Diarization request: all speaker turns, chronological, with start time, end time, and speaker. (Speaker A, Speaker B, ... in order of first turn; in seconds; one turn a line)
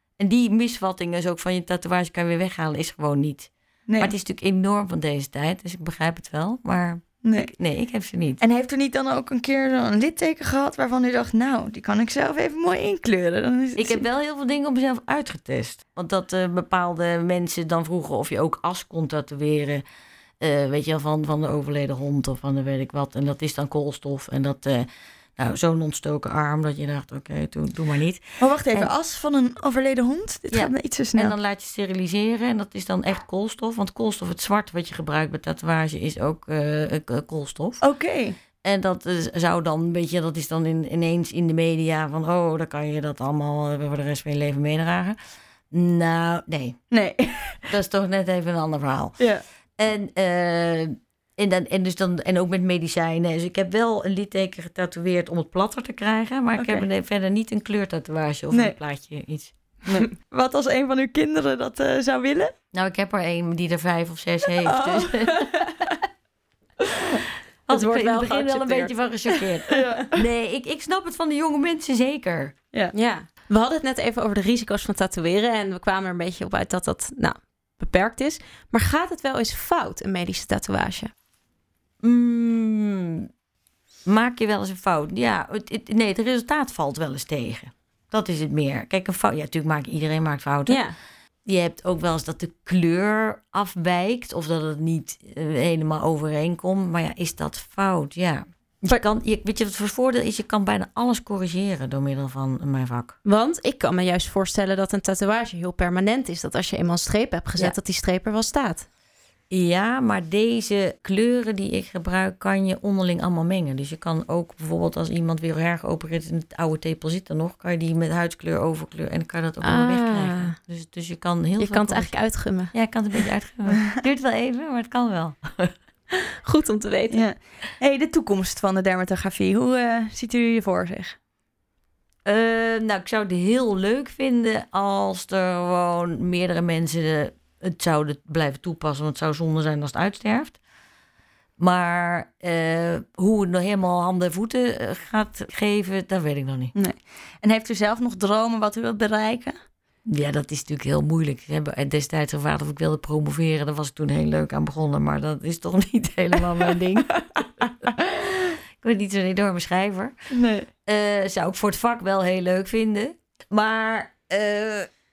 Speaker A: 0.2-8.4
Speaker B: 3.9-4.1
Speaker B: 7.2-7.5
Speaker B: 8.4-14.0
Speaker A: 13.7-19.8
Speaker A: 20.4-28.9
Speaker B: 28.4-31.3
Speaker A: 30.5-37.8
Speaker B: 37.8-38.3
Speaker A: 38.6-45.2
Speaker A: 45.7-46.8
Speaker B: 46.9-47.7
Speaker A: 47.7-59.5
Speaker B: 49.2-49.4
Speaker B: 56.6-56.8
Speaker B: 58.5-58.8
Speaker B: 59.9-62.5
Speaker A: 62.7-65.5
Speaker B: 64.6-65.9
Speaker A: 67.7-72.5
Speaker C: 67.7-69.0
Speaker B: 69.7-70.2
Speaker C: 72.9-81.1
Speaker A: 82.0-83.3
Speaker A: 84.0-90.8
Speaker C: 90.7-91.0
Speaker A: 91.5-103.2
Speaker C: 103.2-108.8
Speaker A: 109.5-125.7
Speaker C: 119.6-120.6
Speaker C: 121.6-122.7
Speaker C: 126.4-127.2
Speaker B: 127.1-131.2
Speaker A: 132.2-140.6
Speaker A: 141.6-146.7
Speaker B: 146.7-149.6
Speaker A: 150.0-157.4
Speaker A: 158.0-160.1
Speaker B: 160.3-160.7
Speaker A: 160.8-164.9